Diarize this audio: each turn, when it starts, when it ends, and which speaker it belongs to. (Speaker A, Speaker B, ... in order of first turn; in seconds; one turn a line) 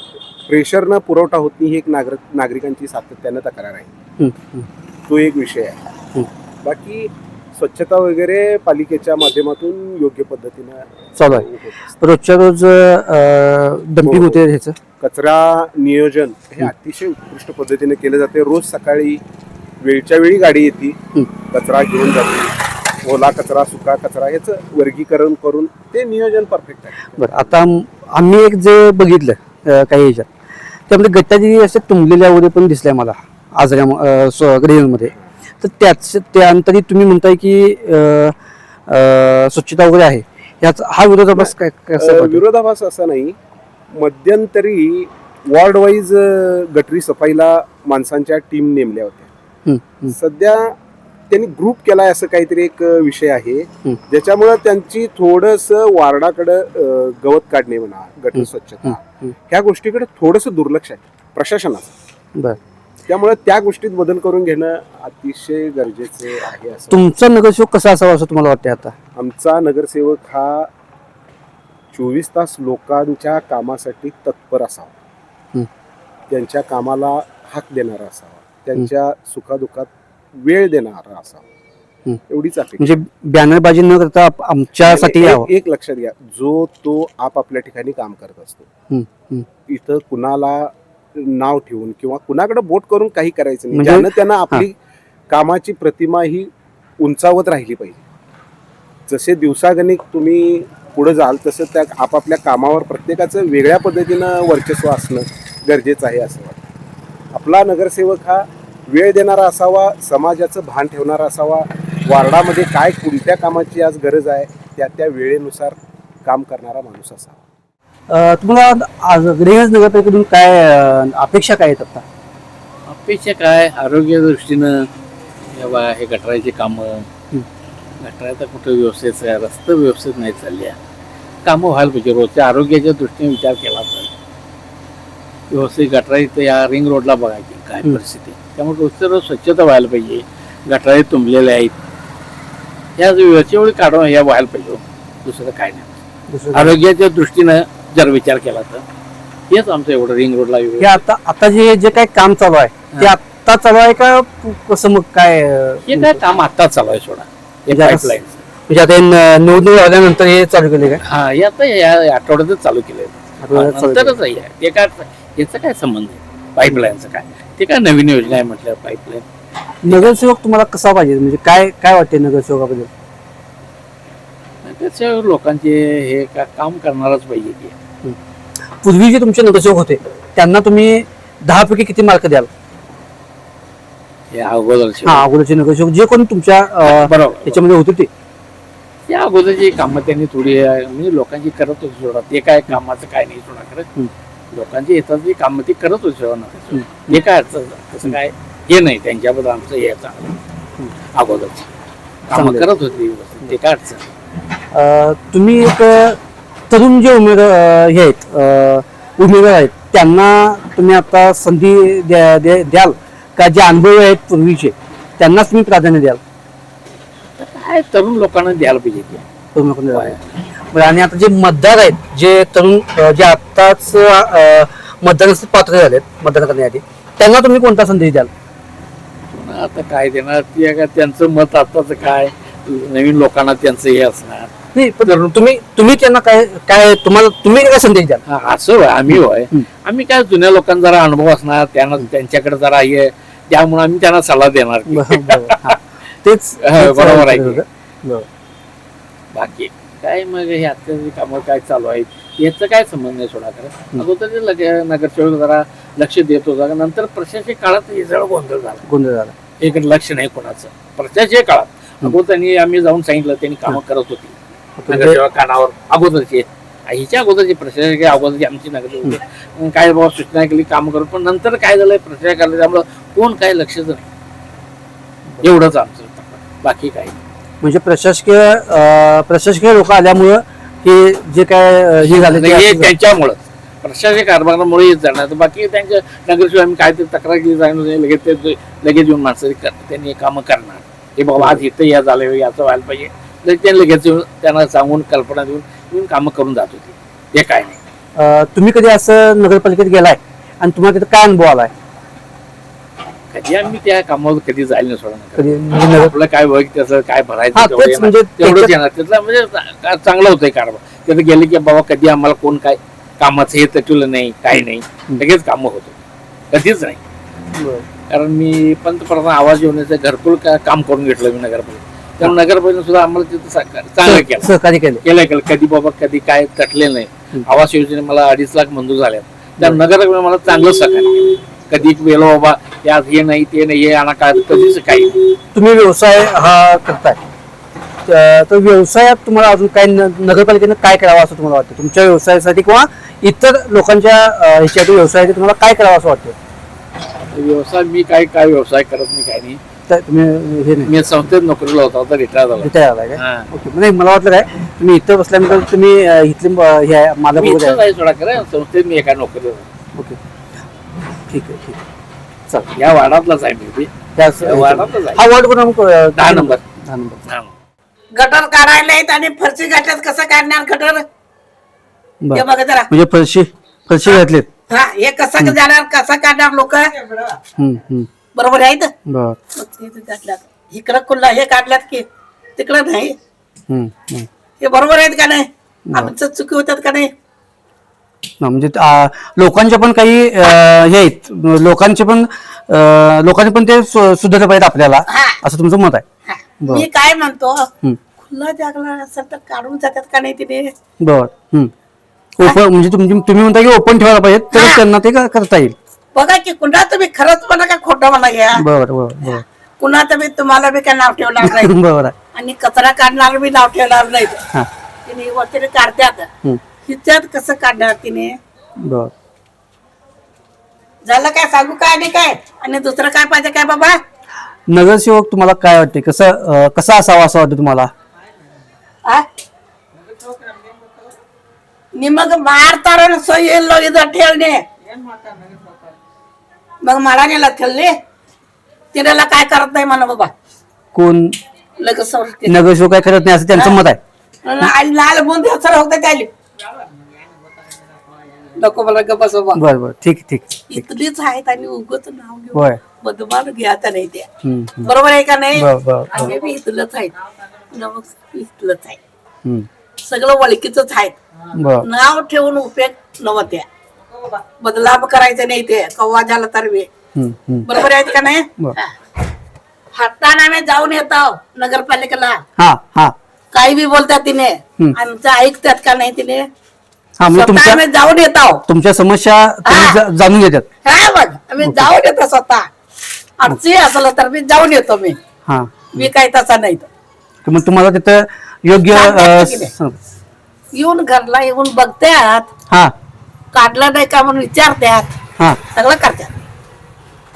Speaker A: 0.5-3.9
Speaker B: 4.2-4.7
Speaker A: 5.1-5.8
Speaker A: 6.6-11.9
Speaker B: 11.2-11.5
Speaker B: 12.0-14.8
Speaker A: 14.0-14.4
Speaker A: 15.0-19.2
Speaker A: 19.8-21.0
Speaker A: 21.5-27.6
Speaker B: 27.2-30.3
Speaker B: 30.9-38.3
Speaker B: 38.9-42.4
Speaker A: 41.3-43.4
Speaker A: 43.9-49.3
Speaker B: 49.6-50.1
Speaker A: 50.1-50.7
Speaker A: 51.3-61.9
Speaker B: 58.4-59.3
Speaker A: 63.0-67.1
Speaker B: 66.9-68.9
Speaker A: 69.2-70.7
Speaker A: 71.9-74.9
Speaker A: 76.3-81.4
Speaker A: 82.3-83.0
Speaker B: 82.8-85.5
Speaker A: 84.8-88.7
Speaker B: 88.9-89.5
Speaker A: 89.7-94.7
Speaker B: 93.7-94.6
Speaker A: 95.3-98.0
Speaker A: 99.1-106.6
Speaker A: 107.3-117.4
Speaker B: 118.1-122.0
Speaker C: 122.8-124.9
Speaker C: 125.5-127.1
Speaker C: 128.0-130.8
Speaker C: 131.4-134.1
Speaker C: 135.5-141.7
Speaker C: 143.0-145.9
Speaker B: 146.3-146.8
Speaker C: 146.5-148.8
Speaker C: 149.5-151.0
Speaker B: 150.8-156.2
Speaker C: 155.9-158.4
Speaker B: 157.7-158.2
Speaker B: 158.7-161.0
Speaker C: 161.0-169.2
Speaker B: 163.4-164.2
Speaker B: 169.8-172.9
Speaker C: 174.6-177.7
Speaker B: 178.8-182.5
Speaker C: 184.3-185.3
Speaker B: 185.0-188.1
Speaker C: 186.9-187.6
Speaker C: 189.1-193.9
Speaker C: 194.5-200.4
Speaker B: 196.7-197.2
Speaker C: 201.1-201.7
Speaker C: 202.3-204.1
Speaker B: 202.3-202.7
Speaker B: 204.7-206.2
Speaker B: 206.7-216.2
Speaker C: 217.4-219.2
Speaker B: 219.5-220.2
Speaker C: 219.9-220.2
Speaker B: 220.7-228.3
Speaker C: 229.3-234.5
Speaker B: 234.7-238.2
Speaker C: 238.2-245.8
Speaker B: 239.1-239.7
Speaker B: 244.9-248.3
Speaker C: 246.6-247.6
Speaker C: 249.3-258.8
Speaker B: 258.9-259.3
Speaker C: 259.6-264.3
Speaker B: 264.8-265.2
Speaker C: 264.9-274.1
Speaker C: 275.4-277.1
Speaker B: 277.6-282.9
Speaker C: 282.0-297.8
Speaker B: 291.4-291.6
Speaker B: 298.1-301.7
Speaker C: 303.3-315.9
Speaker B: 305.4-306.1
Speaker B: 307.5-308.7
Speaker C: 316.5-317.0
Speaker B: 317.5-317.8
Speaker C: 318.1-324.5
Speaker B: 324.0-325.0
Speaker C: 325.0-335.4
Speaker B: 335.5-337.2
Speaker B: 338.1-346.4
Speaker C: 347.3-349.6
Speaker B: 349.9-350.9
Speaker C: 350.9-353.5
Speaker B: 352.6-357.8
Speaker C: 357.3-359.7
Speaker B: 361.3-361.8
Speaker C: 362.7-365.2
Speaker B: 364.1-367.2
Speaker C: 366.1-366.6
Speaker C: 367.3-367.5
Speaker D: 368.1-371.0
Speaker B: 372.2-374.5
Speaker D: 372.3-372.9
Speaker D: 374.7-377.4
Speaker B: 377.6-378.1
Speaker D: 378.3-378.9
Speaker B: 379.1-379.4
Speaker D: 379.6-382.0
Speaker D: 382.6-383.1
Speaker B: 383.7-384.3
Speaker D: 384.6-387.1
Speaker B: 385.9-386.1
Speaker B: 388.4-396.0
Speaker D: 395.1-395.4
Speaker D: 396.3-400.7
Speaker B: 401.0-401.7
Speaker B: 402.4-405.8
Speaker D: 404.5-404.8
Speaker D: 406.1-408.6
Speaker B: 408.6-409.4
Speaker D: 409.2-411.7
Speaker B: 411.4-412.1
Speaker D: 412.3-414.4
Speaker D: 415.1-416.3
Speaker D: 416.8-418.3
Speaker B: 418.8-419.1
Speaker D: 421.0-424.0
Speaker B: 424.7-427.9
Speaker D: 431.9-435.6
Speaker D: 436.8-437.9
Speaker D: 438.9-440.3
Speaker B: 440.9-441.4
Speaker D: 441.8-442.6
Speaker B: 442.5-444.0
Speaker D: 444.4-446.3
Speaker D: 448.5-449.6
Speaker B: 449.5-450.9
Speaker D: 450.7-454.3
Speaker B: 452.5-452.8
Speaker B: 454.4-454.9
Speaker D: 454.8-457.1
Speaker B: 455.5-456.3
Speaker D: 457.7-459.0
Speaker D: 460.0-461.1
Speaker B: 461.6-461.9
Speaker D: 461.8-463.6
Speaker D: 464.2-466.9
Speaker B: 467.1-467.7
Speaker D: 467.6-468.9
Speaker D: 469.9-472.4
Speaker B: 472.6-473.1
Speaker D: 473.5-476.5
Speaker B: 477.2-477.8
Speaker D: 477.3-478.6
Speaker B: 478.7-480.7
Speaker D: 479.7-480.0
Speaker D: 480.8-482.7
Speaker B: 481.6-481.9
Speaker D: 483.4-485.2
Speaker B: 485.4-486.1
Speaker D: 485.9-486.9
Speaker B: 487.4-489.9
Speaker D: 488.9-489.7
Speaker D: 490.7-492.5
Speaker D: 493.5-495.1
Speaker D: 495.7-496.4